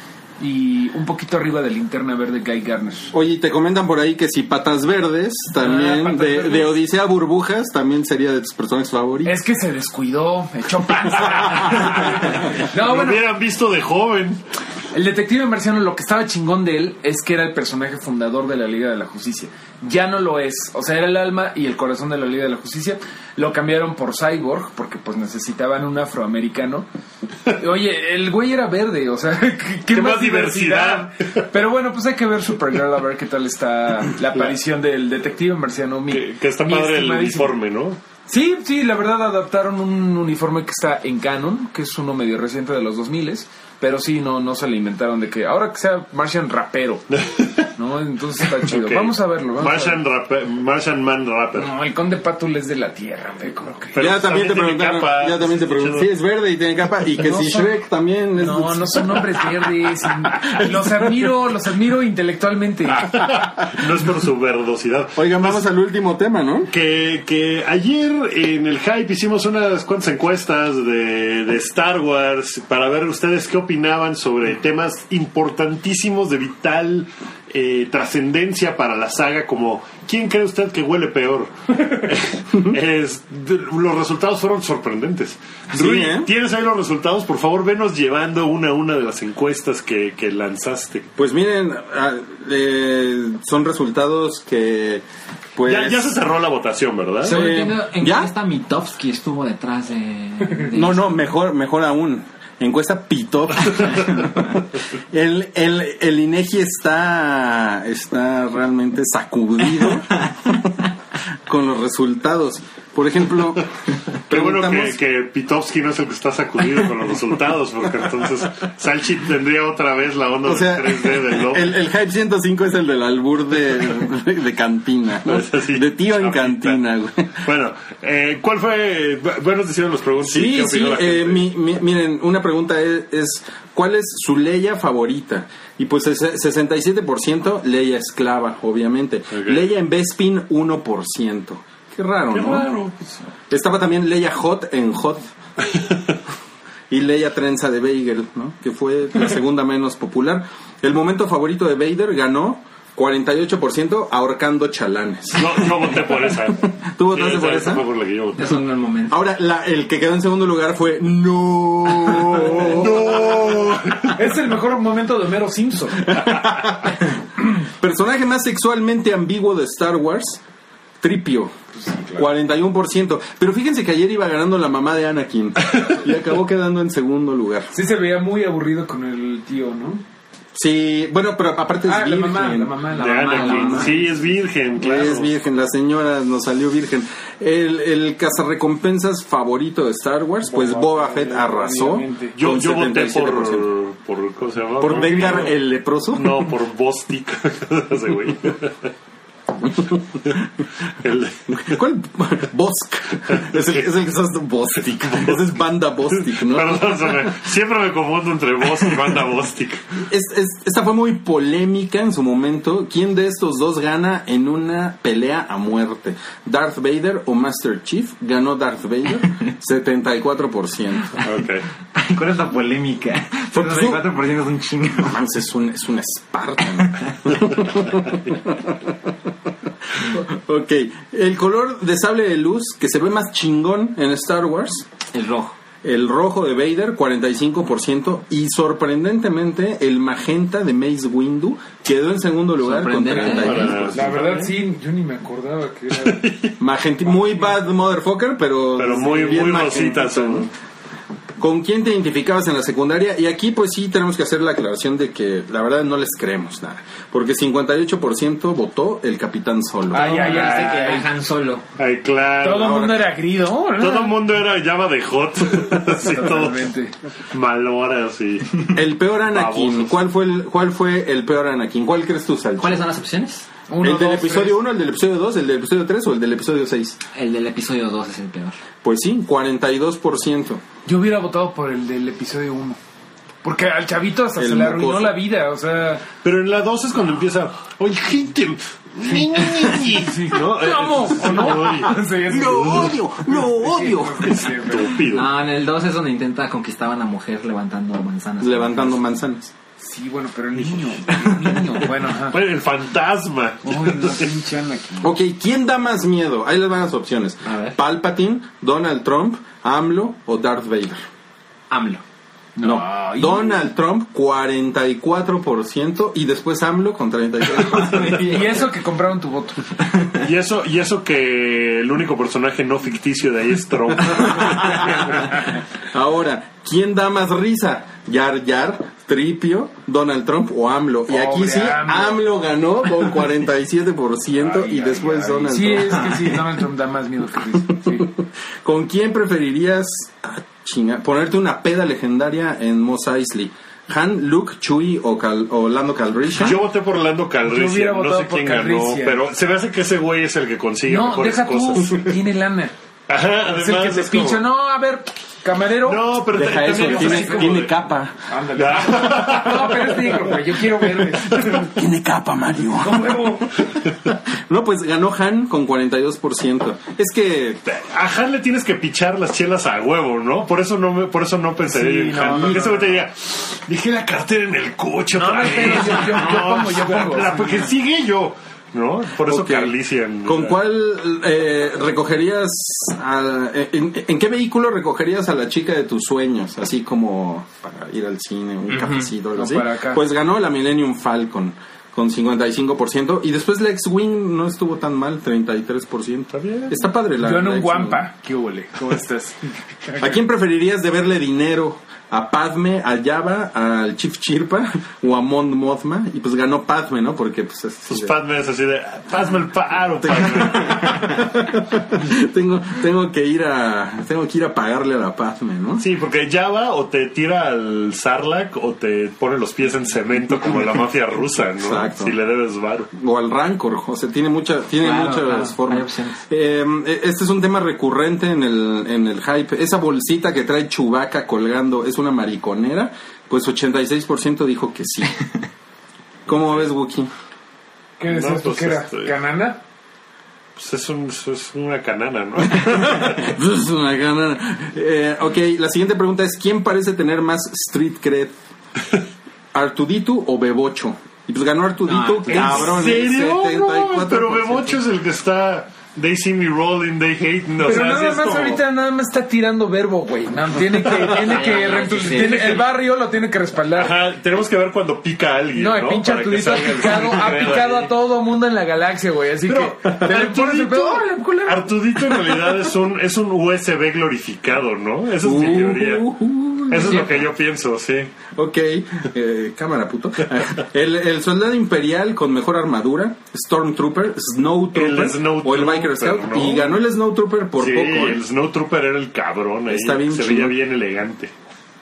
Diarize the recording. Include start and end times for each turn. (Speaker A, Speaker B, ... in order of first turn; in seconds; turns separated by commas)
Speaker A: 0.4-3.1, Speaker B: 3.1-9.3, Speaker A: 5.6-6.7, Speaker A: 9.2-13.2, Speaker C: 12.6-14.4, Speaker A: 14.9-26.9, Speaker A: 27.5-37.6, Speaker C: 29.9-31.5, Speaker C: 36.1-38.0, Speaker A: 38.3-47.0, Speaker C: 47.1-47.7, Speaker A: 47.8-50.0, Speaker C: 48.5-51.7, Speaker A: 51.5-54.0, Speaker C: 53.9-56.1, Speaker B: 54.0-59.5, Speaker A: 57.2-57.7, Speaker A: 58.4-63.3, Speaker B: 60.5-61.0, Speaker C: 63.0-65.6, Speaker B: 65.2-66.7, Speaker C: 66.7-91.1, Speaker B: 85.7-86.3, Speaker B: 91.2-95.0, Speaker B: 95.5-96.1, Speaker C: 95.6-97.4, Speaker D: 97.2-101.2, Speaker B: 97.2-98.3, Speaker B: 100.7-110.8, Speaker B: 111.5-113.7, Speaker B: 114.3-115.0, Speaker C: 114.3-121.7, Speaker B: 120.4-127.4, Speaker C: 125.2-126.8, Speaker C: 127.3-131.5, Speaker B: 130.2-142.7, Speaker C: 139.3-139.6, Speaker C: 142.3-143.2, Speaker B: 143.5-145.3, Speaker C: 145.7-146.1, Speaker B: 146.9-157.8, Speaker C: 155.3-158.6, Speaker D: 158.3-159.2, Speaker B: 159.1-163.5, Speaker C: 162.4-164.2, Speaker A: 164.1-166.4, Speaker B: 166.1-167.0, Speaker B: 167.6-170.4, Speaker B: 171.0-171.5, Speaker A: 171.7-172.3, Speaker B: 172.2-177.7, Speaker A: 177.7-180.0, Speaker B: 180.5-182.8, Speaker A: 181.8-184.1, Speaker C: 182.9-185.3, Speaker D: 183.2-183.9, Speaker B: 183.3-183.9, Speaker B: 184.8-193.7, Speaker A: 190.4-192.4, Speaker C: 192.3-195.6, Speaker B: 194.8-196.5, Speaker C: 196.1-198.9, Speaker C: 200.9-201.8, Speaker B: 201.5-207.2, Speaker C: 206.2-209.8, Speaker B: 210.1-221.1, Speaker C: 221.2-221.7, Speaker D: 221.9-225.2, Speaker B: 223.5-224.0, Speaker B: 225.0-229.1, Speaker B: 229.9-234.8, Speaker D: 235.1-235.5, Speaker B: 235.8-244.2, Speaker D: 242.6-243.9, Speaker C: 243.2-244.4, Speaker A: 243.9-246.3, Speaker C: 245.9-246.5, Speaker B: 246.6-250.5, Speaker A: 247.1-247.5, Speaker C: 248.8-250.5, Speaker B: 251.4-260.3, Speaker A: 259.9-261.1, Speaker D: 259.9-261.6, Speaker C: 261.8-262.9, Speaker A: 262.4-264.2, Speaker B: 262.6-263.0, Speaker C: 263.8-266.7, Speaker A: 265.7-266.9, Speaker C: 267.3-268.7, Speaker B: 268.7-272.8, Speaker C: 269.3-269.9, Speaker D: 272.6-273.5, Speaker A: 273.7-274.6, Speaker B: 273.8-277.0, Speaker D: 277.1-278.6, Speaker B: 278.8-280.6, Speaker A: 280.8-282.8, Speaker A: 283.4-286.0, Speaker B: 284.4-285.2, Speaker C: 286.2-292.0, Speaker A: 289.1-295.0, Speaker B: 292.2-294.5, Speaker C: 294.2-295.3, Speaker D: 295.1-299.0, Speaker B: 298.4-299.5, Speaker A: 299.8-302.4, Speaker C: 302.2-304.3, Speaker A: 303.6-305.1, Speaker B: 305.0-311.0, Speaker D: 307.4-307.8, Speaker D: 311.7-312.0, Speaker A: 312.6-313.6, Speaker B: 312.6-318.5, Speaker D: 317.6-318.6, Speaker A: 318.2-319.8, Speaker C: 320.2-325.3, Speaker B: 324.1-336.3, Speaker A: 331.1-332.2, Speaker A: 334.4-338.1, Speaker B: 337.7-346.6, Speaker C: 346.4-352.1, Speaker A: 347.4-349.2, Speaker A: 350.9-352.7, Speaker C: 353.1-354.4, Speaker A: 353.5-357.6, Speaker C: 355.8-357.7, Speaker B: 356.3-358.1, Speaker A: 358.3-361.8, Speaker C: 358.5-360.5, Speaker B: 361.3-367.8, Speaker A: 362.6-363.6, Speaker C: 367.8-380.6, Speaker A: 371.7-372.9, Speaker A: 375.1-377.7, Speaker B: 379.2-398.0, Speaker D: 388.7-389.1, Speaker A: 389.4-390.0, Speaker C: 396.3-396.8, Speaker A: 397.2-400.2, Speaker B: 400.0-408.1, Speaker C: 407.9-411.1, Speaker B: 410.0-415.8, Speaker C: 415.8-422.9, Speaker B: 421.6-422.1, Speaker B: 422.9-435.2, Speaker D: 424.8-426.2, Speaker B: 436.2-437.1, Speaker A: 438.0-439.6, Speaker C: 438.1-439.1, Speaker C: 440.6-443.3, Speaker B: 443.0-448.3, Speaker B: 449.5-454.8, Speaker D: 451.9-452.8, Speaker C: 452.3-458.6, Speaker A: 457.6-464.0, Speaker D: 461.0-462.7, Speaker C: 463.7-467.9, Speaker A: 465.5-471.7, Speaker C: 469.4-476.1, Speaker B: 475.2-477.2, Speaker C: 476.7-478.1, Speaker B: 478.3-488.2, Speaker C: 484.7-486.7, Speaker C: 487.6-491.3, Speaker B: 489.7-490.5